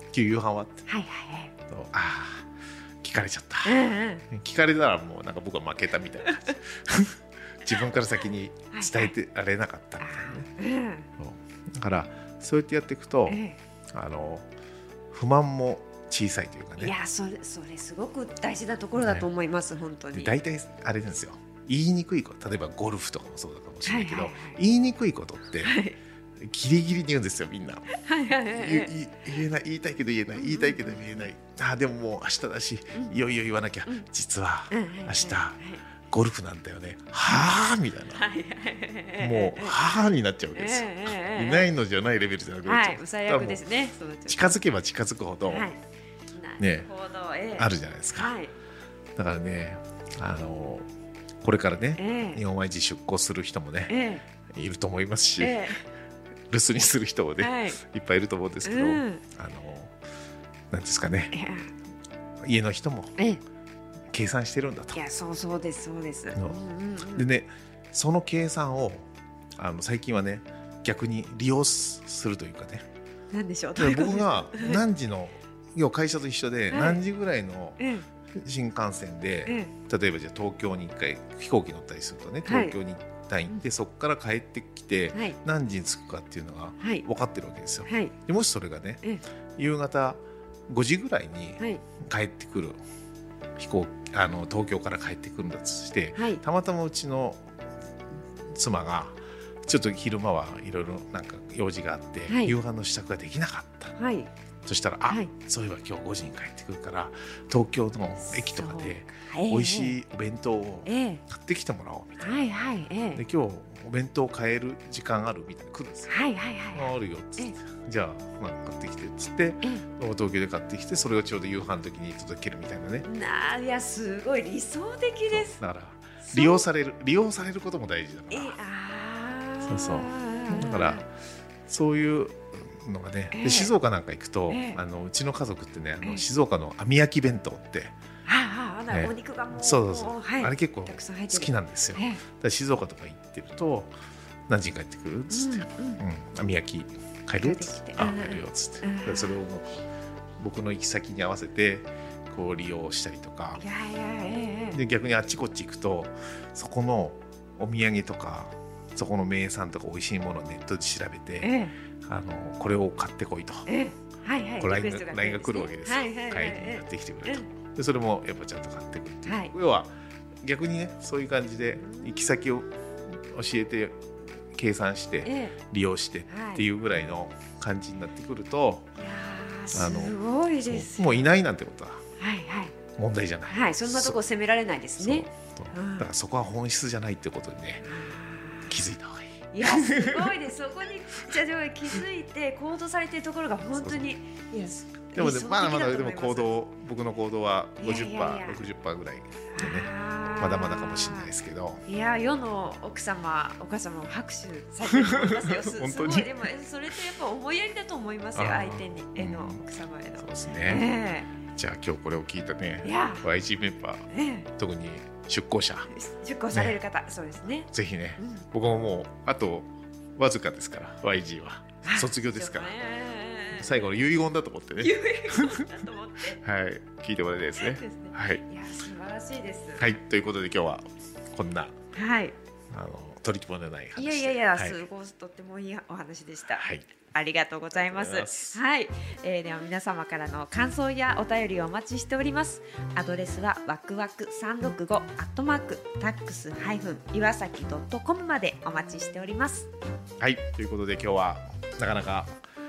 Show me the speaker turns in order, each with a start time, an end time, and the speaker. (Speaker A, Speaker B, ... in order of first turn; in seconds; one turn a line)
Speaker A: 0.1-0.8
Speaker B: 0.9-1.5
Speaker A: 1.7-10.5
Speaker B: 3.6-4.2
Speaker B: 8.7-9.1
Speaker B: 10.0-11.1
Speaker A: 11.2-14.5
Speaker B: 13.3-13.6
Speaker A: 15.1-16.9
Speaker B: 16.8-20.3
Speaker A: 18.9-19.3
Speaker A: 20.1-25.8
Speaker B: 23.8-24.6
Speaker B: 25.6-26.0
Speaker A: 26.4-27.9
Speaker B: 27.9-28.9
Speaker A: 28.5-38.2
Speaker B: 30.4-31.0
Speaker B: 34.7-35.8
Speaker B: 38.1-41.7
Speaker A: 39.2-43.6
Speaker B: 42.6-44.6
Speaker A: 44.3-45.7
Speaker B: 45.5-45.8
Speaker B: 46.3-48.5
Speaker A: 46.6-46.9
Speaker A: 47.6-48.4
Speaker A: 49.2-50.9
Speaker A: 51.4-54.0
Speaker B: 52.0-52.4
Speaker B: 53.9-54.2
Speaker A: 54.5-55.8
Speaker B: 55.4-55.8
Speaker A: 56.5-60.0
Speaker B: 57.4-57.8
Speaker B: 58.6-59.2
Speaker A: 60.7-61.3
Speaker B: 61.3-61.7
Speaker A: 62.4-63.2
Speaker A: 64.1-65.0
Speaker B: 64.9-67.2
Speaker A: 66.3-72.8
Speaker B: 73.3-74.8
Speaker A: 73.8-77.8
Speaker B: 76.7-77.0
Speaker B: 77.8-78.1
Speaker A: 78.3-89.0
Speaker B: 79.5-79.7
Speaker B: 82.4-82.8
Speaker B: 86.8-87.0
Speaker B: 87.9-88.1
Speaker A: 89.6-92.8
Speaker B: 91.6-91.8
Speaker A: 93.6-97.5
Speaker B: 96.2-96.4
Speaker A: 98.5-104.0
Speaker B: 102.3-102.6
Speaker B: 104.0-104.3
Speaker A: 104.7-112.4
Speaker B: 108.2-110.0
Speaker B: 110.8-111.2
Speaker B: 112.2-113.2
Speaker A: 113.1-116.1
Speaker B: 116.1-117.5
Speaker A: 116.7-123.1
Speaker B: 123.0-125.6
Speaker A: 125.3-128.6
Speaker B: 126.3-126.7
Speaker B: 128.3-131.0
Speaker A: 129.6-131.1
Speaker A: 131.7-137.9
Speaker B: 133.3-133.7
Speaker B: 134.5-134.8
Speaker B: 138.2-142.2
Speaker A: 138.9-143.9
Speaker A: 144.5-149.8
Speaker B: 145.3-146.0
Speaker B: 147.4-149.4
Speaker A: 150.4-153.6
Speaker B: 153.6-154.8
Speaker A: 154.7-163.7
Speaker B: 161.4-161.8
Speaker B: 163.7-167.5
Speaker A: 164.6-178.9
Speaker B: 169.2-169.5
Speaker B: 171.7-172.3
Speaker B: 175.2-175.6
Speaker B: 176.3-176.7
Speaker B: 179.0-181.3
Speaker A: 179.7-182.0
Speaker B: 182.2-182.8
Speaker A: 183.0-184.2
Speaker B: 183.5-186.1
Speaker A: 185.0-187.9
Speaker B: 187.8-188.8
Speaker A: 188.7-190.3
Speaker B: 189.5-196.5
Speaker A: 193.8-194.1
Speaker A: 195.1-201.8
Speaker B: 197.8-198.6
Speaker B: 199.6-201.3
Speaker B: 201.9-211.3
Speaker A: 204.9-206.4
Speaker A: 208.3-209.7
Speaker A: 210.2-210.9
Speaker A: 211.5-215.9
Speaker B: 212.8-213.2
Speaker B: 214.1-214.5
Speaker B: 215.9-218.4
Speaker A: 216.5-216.8
Speaker A: 217.7-222.8
Speaker B: 221.8-223.8
Speaker A: 223.5-228.4
Speaker B: 224.8-226.4
Speaker B: 227.6-229.9
Speaker A: 229.8-231.8
Speaker B: 231.9-232.3
Speaker A: 232.7-234.8
Speaker B: 234.0-249.7
Speaker A: 236.5-236.9
Speaker A: 237.8-238.6
Speaker A: 250.2-252.4